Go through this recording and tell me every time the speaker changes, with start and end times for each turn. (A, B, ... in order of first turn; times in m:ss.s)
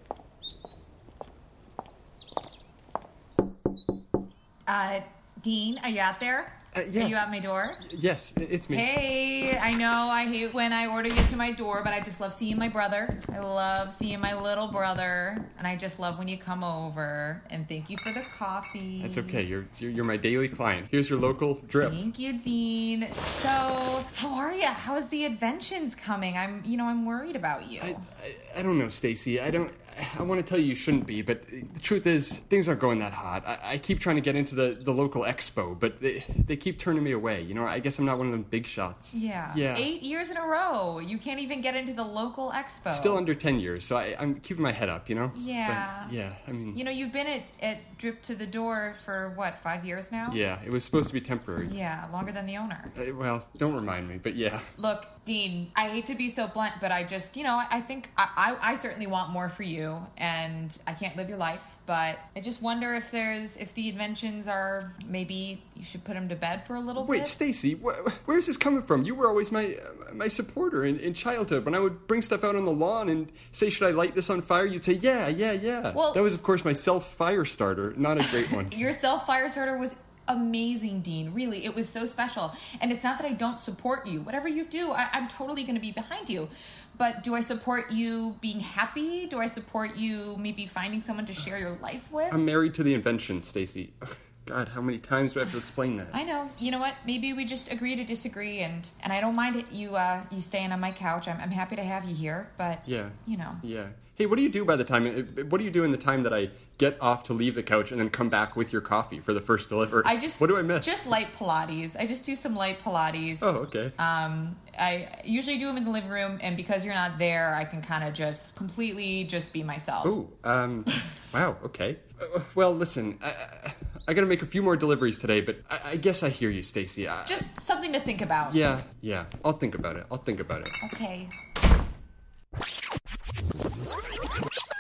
0:04.7-0:07.8 A
0:06.7-0:07.2 B
0:07.8-0:08.9 B
0:08.7-0:19.4 A
0:19.0-0:22.0 B
0:21.8-0:28.0 A
0:27.8-0:39.9 B
0:39.1-0:43.2 A
0:42.9-0:46.8 B
0:45.3-0:46.1 A
0:46.7-0:50.4 A
0:50.3-0:51.7 B
0:51.6-0:52.9 A
0:53.0-0:54.7 B
0:54.8-1:07.4 A
1:07.0-1:18.9 B
1:15.9-1:16.2 A
1:18.4-1:32.4 A
1:32.3-1:36.2 B
1:36.1-1:43.6 A
1:42.9-1:51.0 B
1:50.0-2:00.2 A
1:53.4-1:54.0 B
2:00.0-2:07.4 B
2:07.3-2:08.6 A
2:08.5-2:10.8 B
2:10.8-2:11.3 A